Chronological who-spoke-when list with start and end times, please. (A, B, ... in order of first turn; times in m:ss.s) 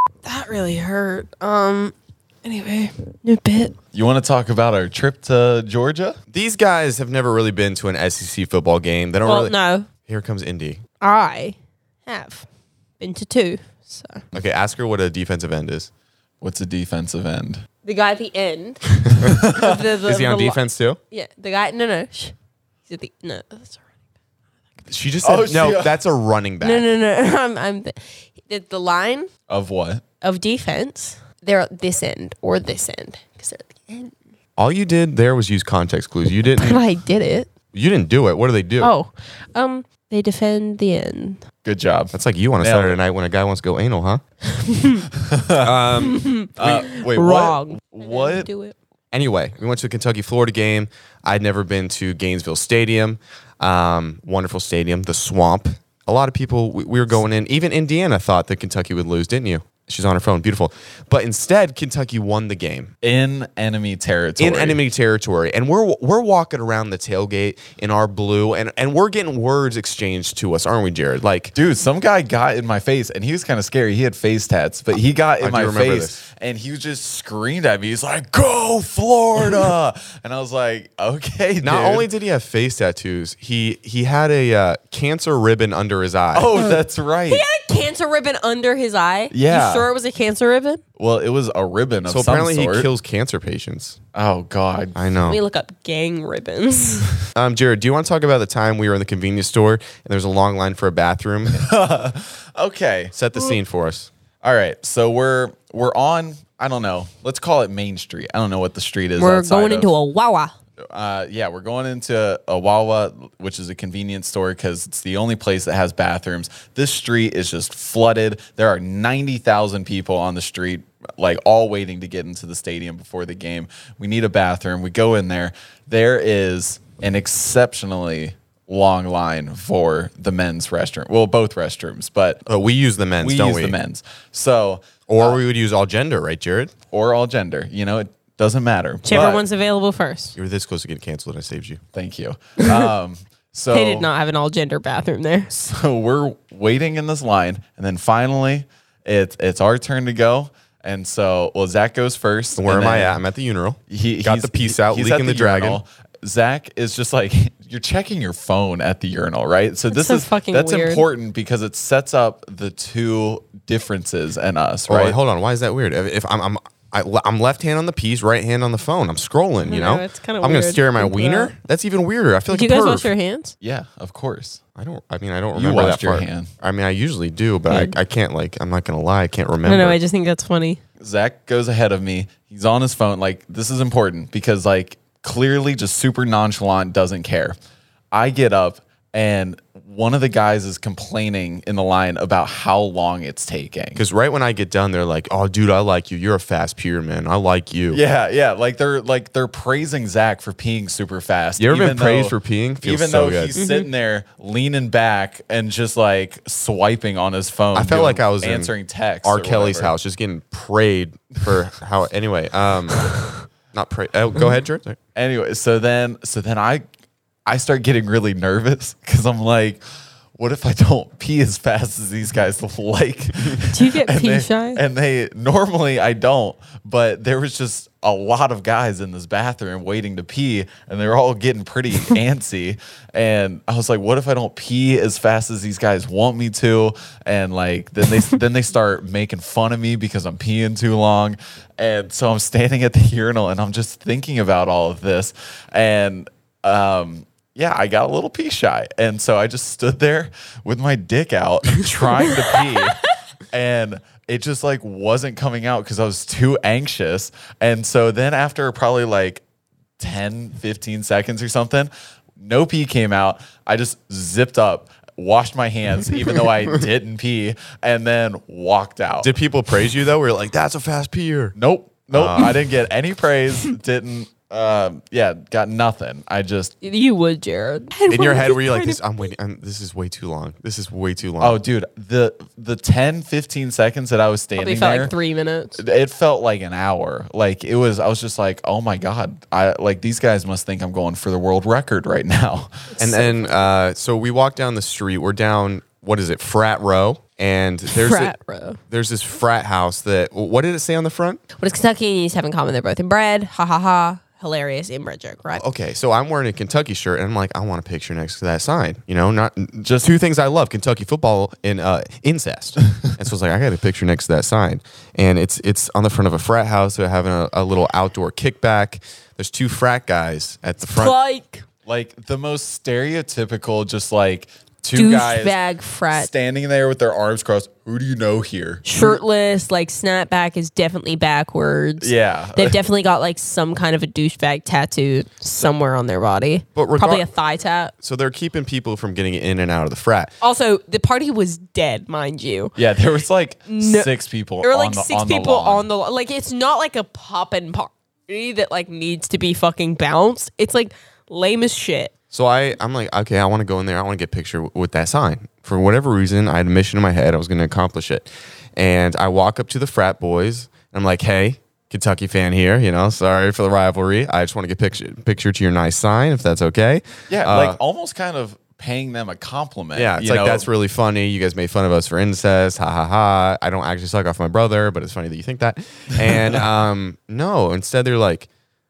0:00.2-0:03.8 A
0:03.9-0:06.2 B
0:06.3-0:09.6 C
0:09.2-0:09.9 A
0:10.1-0:10.8 C
0:11.0-0:11.6 A
0:12.1-0:12.5 A
0:13.0-0:14.2 A
0:14.3-0:15.9 C
0:16.4-0:17.6 B
0:17.8-0:22.4 A
0:19.1-0:19.8 B
0:20.0-0:21.0 C
0:22.9-0:23.8 A
0:24.9-0:26.9 C
0:25.2-0:26.0 B
0:26.6-0:29.3 A
0:29.5-0:30.0 B
0:30.2-0:34.2 A
0:34.6-0:36.8 C
0:36.6-0:37.5 A
0:37.7-0:38.9 C
0:38.8-0:41.4 A
0:41.6-0:43.0 B
0:42.1-0:44.2 C
0:44.5-0:45.1 A
0:45.1-0:45.7 B
0:45.6-0:46.2 C
0:46.0-0:48.8 A
0:46.6-0:48.5 B
0:49.1-1:02.9 C
1:03.0-1:04.8 B
1:04.4-1:11.5 C
1:11.6-1:22.1 B
1:15.4-1:16.2 C
1:21.6-1:26.6 C
1:26.3-1:27.4 B
1:27.3-1:30.8 A
1:29.3-1:29.9 B
1:31.0-1:32.9 B
1:32.1-1:34.0 C
1:34.1-1:35.1 B
1:35.0-1:35.4 C
1:35.3-1:37.2 A
1:37.3-1:41.7 C
1:41.5-1:43.2 B
1:43.1-1:44.1 C
1:44.4-1:49.9 B
1:49.2-1:50.5 A
1:50.9-2:12.4 B
2:12.5-2:13.8 C
2:13.2-2:15.4 B
2:15.1-2:16.7 C
2:16.9-2:19.4 B
2:19.0-2:20.4 A
2:20.4-2:21.8 C
2:21.9-2:24.1 B
2:22.6-2:22.9 A
2:23.7-2:25.5 A
2:25.5-2:33.2 B
2:32.6-2:35.8 C
2:33.9-2:45.2 B
2:39.9-2:41.0 A
2:44.9-2:53.1 C
2:49.6-2:51.5 A
2:52.5-2:53.5 A
2:53.6-2:54.6 B
2:54.8-3:00.0 C
2:55.5-2:56.5 B
2:57.7-2:58.0 A
2:59.6-3:00.8 A
3:01.0-3:07.6 B
3:08.1-3:14.0 B
3:14.0-3:18.0 C
3:17.9-3:29.9 B
3:21.6-3:23.6 C
3:23.6-3:23.9 A
3:27.8-3:28.7 C
3:29.2-3:33.2 C
3:33.7-3:35.0 C
3:35.2-3:36.8 B
3:37.5-3:39.8 B
3:40.4-4:19.4 B
3:43.7-3:44.8 A
4:12.4-4:12.7 A
4:20.0-4:29.3 B
4:29.2-4:31.6 C
4:31.6-4:36.8 B
4:32.1-4:32.6 C
4:36.8-4:39.1 A
4:38.1-4:41.6 C
4:41.4-4:45.1 B
4:44.6-4:45.8 A
4:45.8-4:52.9 B
4:52.9-4:53.7 A
4:53.0-4:58.4 C
4:57.9-4:58.8 A
4:58.9-5:01.4 C
5:01.6-5:05.6 A
5:05.6-5:21.2 C
5:20.8-5:21.6 A
5:21.9-5:25.6 B
5:25.0-5:26.3 A
5:26.1-5:29.2 B
5:28.8-5:37.9 A
5:32.0-5:32.8 B
5:36.8-5:37.3 C
5:38.0-5:40.3 C
5:40.4-5:42.8 A
5:42.8-5:45.8 B
5:43.7-5:44.1 A
5:44.6-5:52.1 A
5:52.3-6:07.8 C
6:07.3-6:10.7 B
6:10.0-6:18.5 C